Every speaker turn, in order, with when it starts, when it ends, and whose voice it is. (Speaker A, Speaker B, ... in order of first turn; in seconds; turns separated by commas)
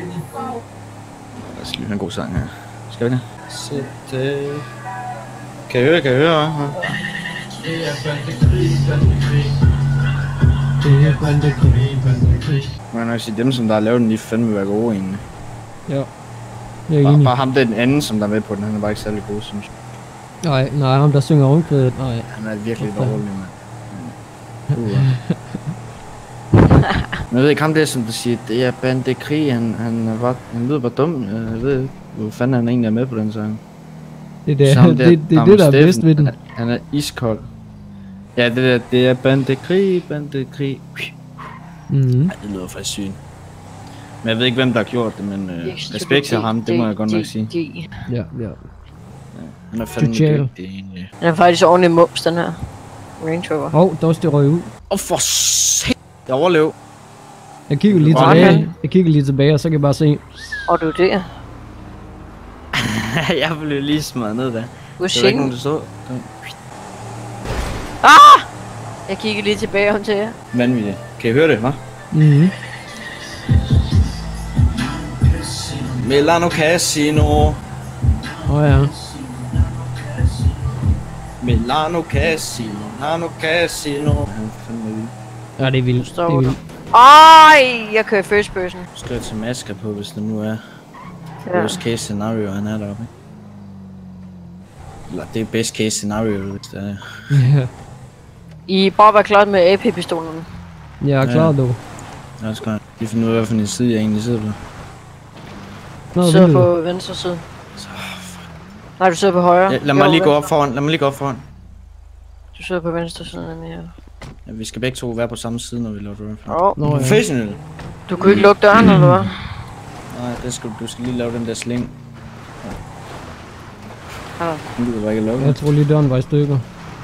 Speaker A: 1.4-4.6, Speaker A: 5.7-6.8, Speaker B: 10.8-12.3, Speaker A: 12.9-15.2, Speaker B: 16.9-17.3, Speaker A: 17.0-19.7, Speaker B: 20.4-22.3, Speaker A: 22.3-24.1, Speaker B: 22.8-23.2, Speaker B: 24.7-25.4, Speaker A: 24.7-25.1, Speaker A: 27.3-33.6, Speaker B: 34.5-36.3, Speaker A: 34.6-37.5, Speaker A: 38.4-41.1, Speaker B: 41.9-42.3, Speaker A: 42.3-43.2, Speaker A: 44.2-47.5, Speaker C: 45.6-47.9, Speaker B: 48.1-48.6, Speaker A: 49.3-51.1, Speaker B: 49.9-50.5, Speaker C: 51.2-52.5, Speaker C: 53.2-53.8, Speaker B: 53.7-54.7, Speaker A: 54.9-56.7, Speaker B: 57.7-60.3, Speaker A: 57.9-58.6, Speaker C: 58.1-58.7, Speaker C: 60.7-61.3, Speaker A: 62.8-66.3, Speaker C: 65.0-65.5, Speaker C: 68.0-68.5, Speaker C: 69.1-70.3, Speaker A: 70.5-71.8, Speaker B: 72.1-72.5, Speaker A: 74.8-77.6, Speaker B: 78.5-78.9, Speaker A: 78.7-80.8, Speaker A: 81.4-85.1, Speaker B: 85.6-86.6, Speaker C: 86.0-88.9, Speaker A: 88.9-90.6, Speaker C: 91.4-91.8, Speaker A: 91.5-93.1, Speaker A: 95.1-97.0, Speaker B: 97.3-97.7, Speaker C: 98.7-100.5, Speaker B: 101.0-101.8, Speaker A: 101.2-101.5, Speaker A: 102.4-104.6, Speaker B: 106.1-106.7, Speaker C: 106.2-107.4, Speaker A: 107.8-108.5, Speaker C: 109.0-110.5, Speaker A: 109.7-111.4, Speaker C: 112.5-113.9, Speaker A: 114.5-117.6, Speaker C: 116.5-116.8, Speaker B: 116.8-117.2, Speaker C: 118.1-119.4, Speaker A: 118.2-119.0, Speaker A: 120.1-122.0, Speaker C: 124.4-124.6, Speaker A: 124.8-125.6, Speaker B: 125.4-126.6